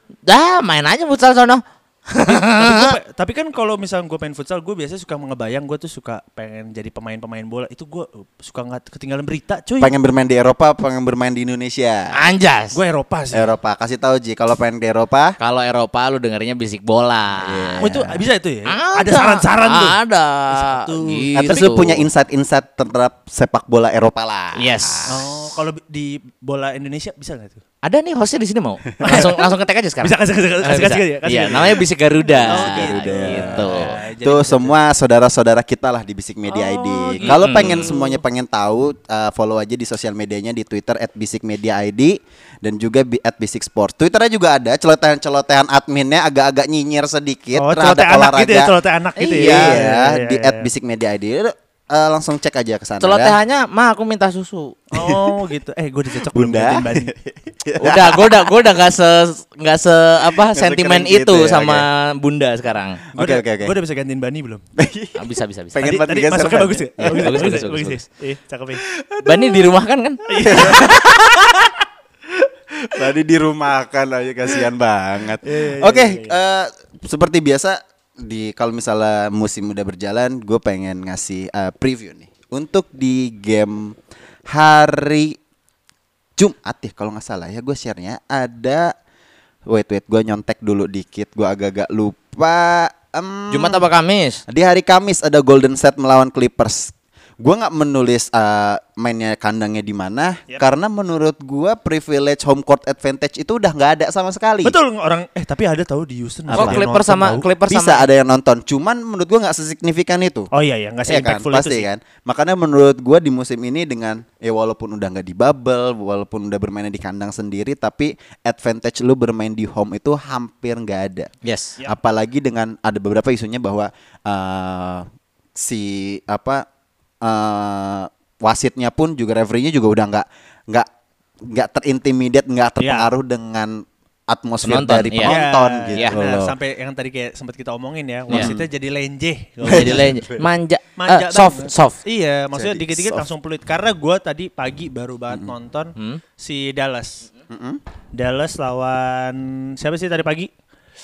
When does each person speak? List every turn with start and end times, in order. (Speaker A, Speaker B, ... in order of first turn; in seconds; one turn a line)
Speaker A: 0.3-3.0
Speaker B: 2.3-9.9
Speaker C: 9.8-12.1
Speaker A: 12.1-12.8
Speaker B: 12.7-13.5
Speaker C: 13.3-15.4
Speaker A: 15.4-17.9
Speaker C: 17.4-18.2
Speaker B: 17.8-20.0
Speaker A: 18.7-22.1
Speaker B: 20.5-21.6
Speaker C: 21.4-25.0
Speaker A: 24.6-25.2
Speaker B: 25.1-27.6
Speaker A: 27.8-33.9
Speaker B: 29.0-29.4
Speaker B: 30.0-31.9
Speaker C: 32.3-48.7
Speaker B: 32.5-34.8
Speaker B: 36.5-38.1
Speaker A: 37.2-38.0
Speaker B: 47.5-50.7
Speaker A: 49.2-49.8
Speaker C: 49.4-53.4
Speaker A: 53.0-54.8
Speaker B: 54.9-57.1
Speaker C: 55.0-55.2
Speaker C: 56.3-58.5
Speaker A: 57.8-63.0
Speaker C: 60.3-61.9
Speaker C: 63.1-63.8
Speaker B: 63.1-64.6
Speaker C: 64.8-67.6
Speaker A: 65.2-65.9
Speaker B: 65.8-68.8
Speaker A: 67.0-68.0
Speaker C: 69.0-69.5
Speaker A: 69.2-70.9
Speaker B: 70.3-71.2
Speaker C: 70.4-71.7
Speaker C: 72.4-84.0
Speaker B: 75.4-76.4
Speaker C: 84.5-85.4
Speaker C: 86.4-88.9
Speaker C: 89.7-93.8
Speaker A: 93.5-94.4
Speaker C: 94.5-104.8
Speaker B: 104.6-107.5
Speaker C: 106.5-106.8
Speaker A: 106.5-108.1
Speaker C: 107.7-110.5
Speaker B: 110.5-111.9
Speaker C: 111.1-121.3
Speaker A: 121.4-121.8
Speaker C: 121.8-126.7
Speaker C: 127.2-130.9
Speaker C: 131.4-136.5
Speaker B: 132.8-133.1
Speaker A: 134.6-135.4
Speaker B: 135.2-140.1
Speaker C: 138.3-138.7
Speaker A: 139.6-142.0
Speaker C: 139.7-140.4
Speaker B: 141.0-147.3
Speaker C: 142.5-143.3
Speaker A: 146.0-146.2
Speaker C: 147.5-147.8
Speaker B: 148.1-150.5